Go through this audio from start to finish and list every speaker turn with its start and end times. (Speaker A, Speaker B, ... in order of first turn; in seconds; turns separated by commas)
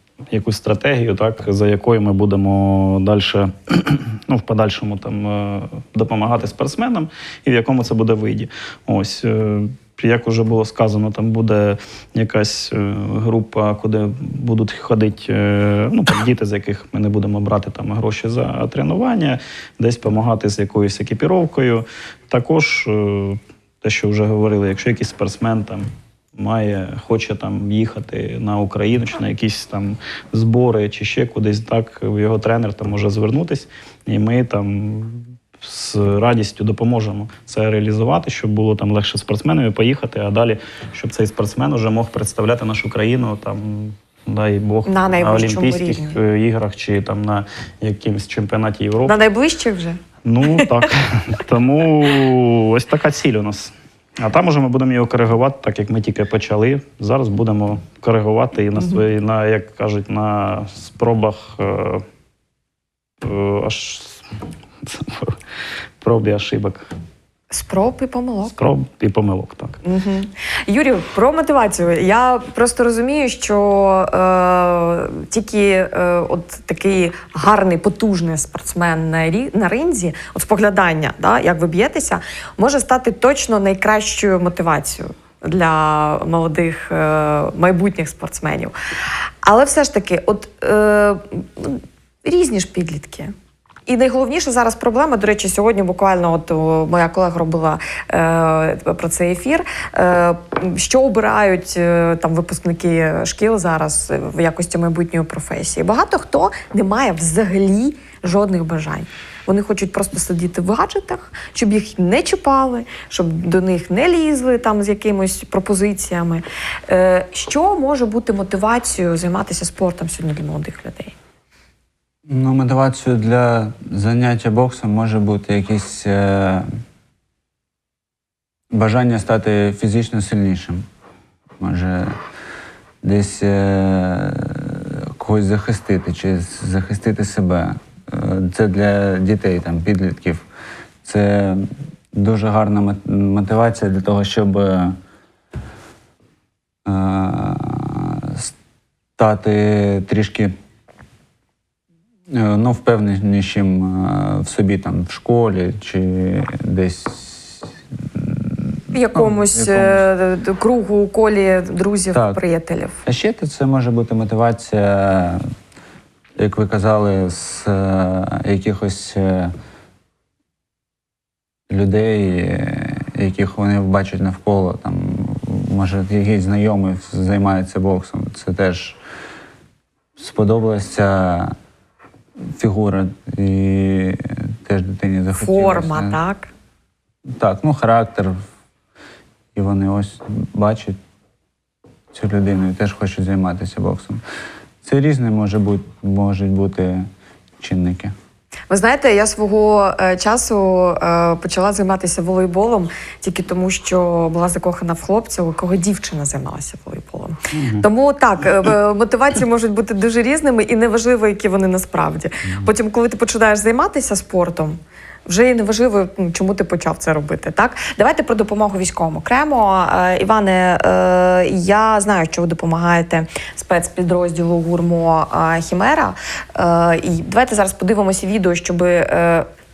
Speaker A: 0.3-49.2, Speaker B: 44.9-46.2, Speaker B: 49.1-50.7, Speaker A: 50.2-62.0, Speaker A: 63.2-64.2, Speaker A: 64.8-65.4, Speaker A: 66.0-66.9, Speaker B: 67.5-68.5, Speaker A: 68.5-69.8, Speaker B: 69.8-88.7, Speaker B: 89.4-93.3, Speaker B: 93.9-121.1, Speaker C: 122.3-126.7, Speaker C: 128.7-130.9, Speaker C: 131.6-132.2, Speaker C: 133.0-140.4, Speaker C: 141.0-145.0, Speaker C: 146.8-148.5, Speaker C: 149.2-150.6, Speaker C: 152.3-160.1, Speaker B: 158.9-163.0, Speaker C: 162.1-162.4, Speaker C: 163.1-165.5, Speaker C: 166.4-169.5, Speaker C: 171.7-179.0, Speaker C: 180.2-181.6, Speaker C: 182.5-186.2, Speaker B: 185.4-186.5, Speaker C: 187.3-188.4, Speaker C: 189.6-191.0, Speaker C: 192.1-194.2, Speaker C: 194.8-197.1, Speaker C: 197.6-198.2, Speaker B: 198.7-229.5